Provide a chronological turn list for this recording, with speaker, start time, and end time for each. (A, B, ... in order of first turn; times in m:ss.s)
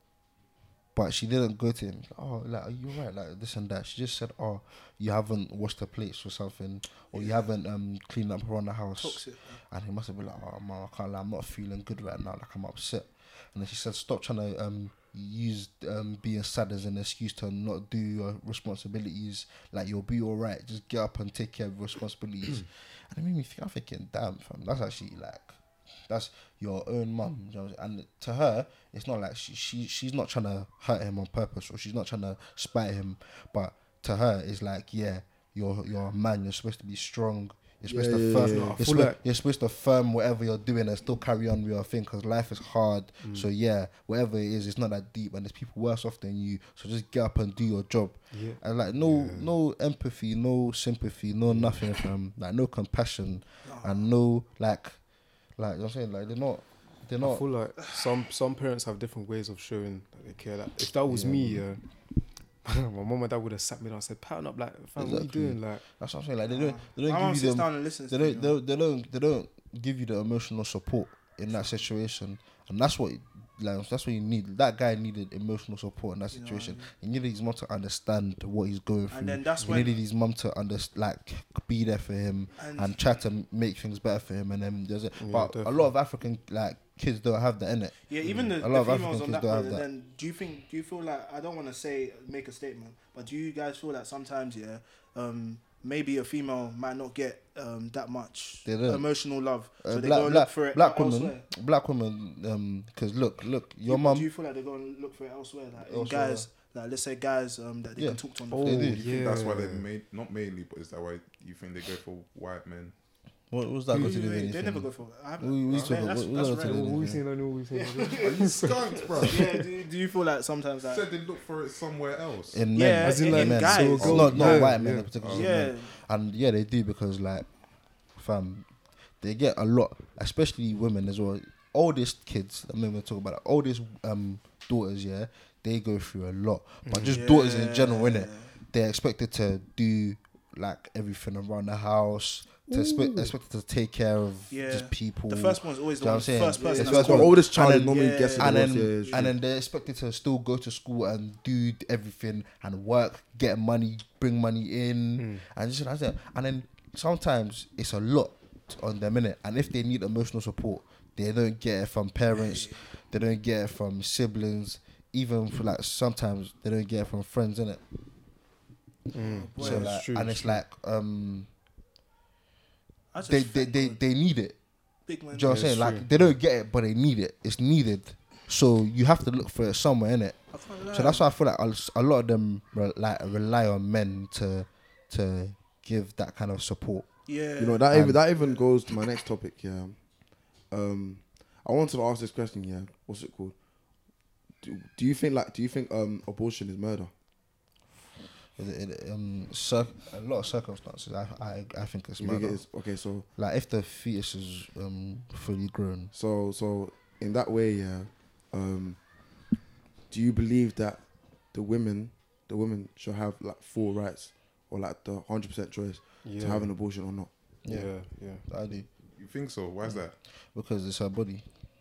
0:00.9-0:55.0 A
0:07.1-0:07.5 B
0:09.0-0:09.6 B
0:37.9-0:38.8 C
0:38.3-0:39.2 D
0:43.2-0:43.5 D
0:48.3-0:49.5 D
0:51.5-0:51.9 D
0:53.6-0:54.1 B
0:55.6-0:57.4 A
0:57.2-1:01.8 D
1:01.1-1:01.6 A
1:02.6-1:05.8 D
1:05.0-1:29.8 A
1:06.5-1:08.6 B
1:16.3-1:16.9 B
1:19.1-1:20.0 B
1:22.6-1:23.1 B
1:25.2-1:25.9 D
1:28.1-1:41.4 B
1:28.2-1:28.5 D
1:38.6-1:39.1 A
1:39.8-1:44.3 A
1:43.8-1:48.9 B
1:45.8-1:46.5 A
1:48.0-1:49.0 A
1:48.5-1:49.9 D
1:49.0-1:52.9 E
1:53.5-1:54.9 A
1:53.9-1:57.0 B
1:55.4-1:57.2 A
1:56.5-1:59.6 D
1:57.7-1:58.4 B
1:58.2-1:59.5 E
1:59.2-2:01.0 B
2:00.9-2:02.7 E
2:02.5-2:07.5 A
2:02.7-2:04.7 B
2:03.0-2:05.1 D
2:03.9-2:05.5 E
2:05.3-2:05.9 B
2:08.2-2:08.7 A
2:09.2-2:47.8 A
2:16.8-2:17.2 D
2:17.1-2:18.5 B
2:22.7-2:23.3 D
2:24.5-2:29.3 B
2:26.6-2:29.3 C
2:42.3-2:42.8 B
2:49.1-2:50.6 D
2:49.2-2:50.0 B
2:49.6-2:51.5 A
2:53.1-2:54.0 B
2:53.2-2:54.6 A
2:55.1-2:55.7 B
2:55.3-3:00.4 A
2:55.4-2:56.3 D
3:00.5-3:01.3 B
3:00.9-3:07.1 A
3:07.3-3:07.8 B
3:07.6-3:10.0 C
3:07.9-3:08.2 A
3:08.3-3:08.7 B
3:10.7-3:13.5 C
3:14.6-3:17.1 C
3:18.6-3:22.6 A
3:22.2-3:23.2 C
3:23.4-3:26.1 A
3:26.1-3:29.0 C
3:30.1-3:31.0 C
3:31.5-3:37.3 C
3:36.2-3:36.7 D
3:37.6-3:37.9 A
3:37.7-3:38.4 D
3:38.4-3:38.9 A
3:39.2-3:40.1 E
3:40.5-3:41.4 A